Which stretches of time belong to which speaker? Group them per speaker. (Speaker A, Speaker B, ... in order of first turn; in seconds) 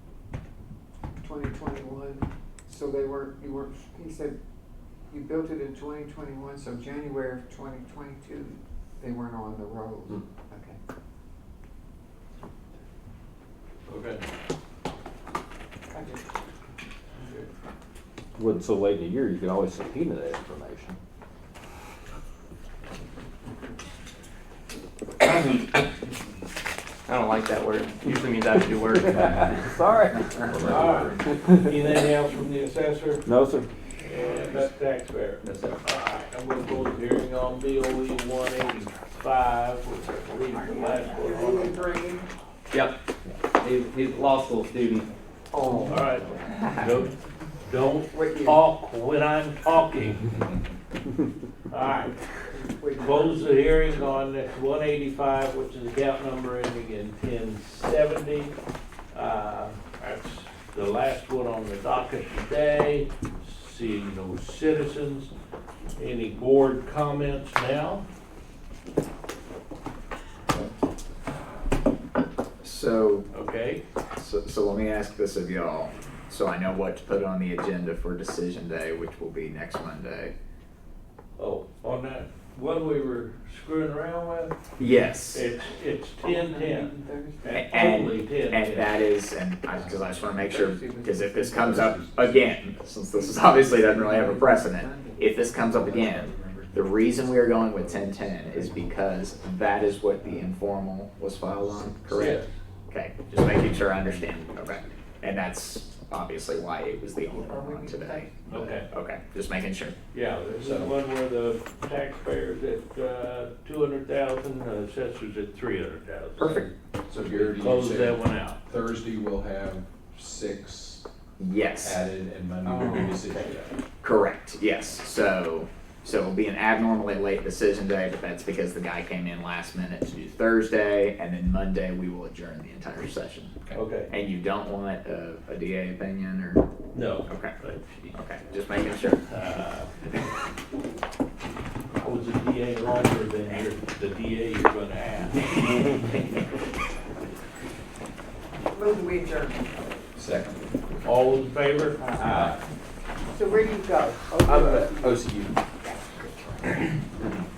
Speaker A: 1.2-4.4, 5.1-10.8, 15.9-16.2, 40.5-42.2, 45.5-46.7, 48.1-48.6, 52.5-53.5, 86.2-87.6, 89.7-92.5, 93.1-95.7, 107.2-108.7, 122.6-123.6, 148.7-149.8, 152.0-152.5, 153.3-155.2, 155.8-156.7
Speaker B: 13.9-14.2, 17.2-17.5, 30.6-33.2, 34.0-41.9, 45.9-50.3, 51.7-52.1, 53.0-58.5, 59.1-65.3, 66.0-68.0, 73.3-73.8, 81.4-84.6, 85.3-89.0, 102.1-102.5, 108.5-108.9, 110.1-116.7, 117.3-118.6, 133.7-134.1, 136.9-138.2, 139.3-139.9, 142.0-146.1, 151.0-152.6
Speaker C: 18.4-21.0, 28.9-31.7, 33.2-33.7
Speaker D: 27.1-29.6, 35.4-35.8, 42.7-43.0, 43.5-45.1
Speaker E: 72.6-73.3, 74.2-80.3, 84.8-85.4, 87.5-108.3, 108.9-110.0, 116.4-116.7, 121.4-122.0, 124.0-136.7, 137.2-137.5, 138.1-139.2
Speaker F: 95.8-96.8, 97.8-98.8, 110.6-110.9, 117.0-121.0, 121.8-123.8, 150.2-150.6, 152.2-152.6, 154.4-155.6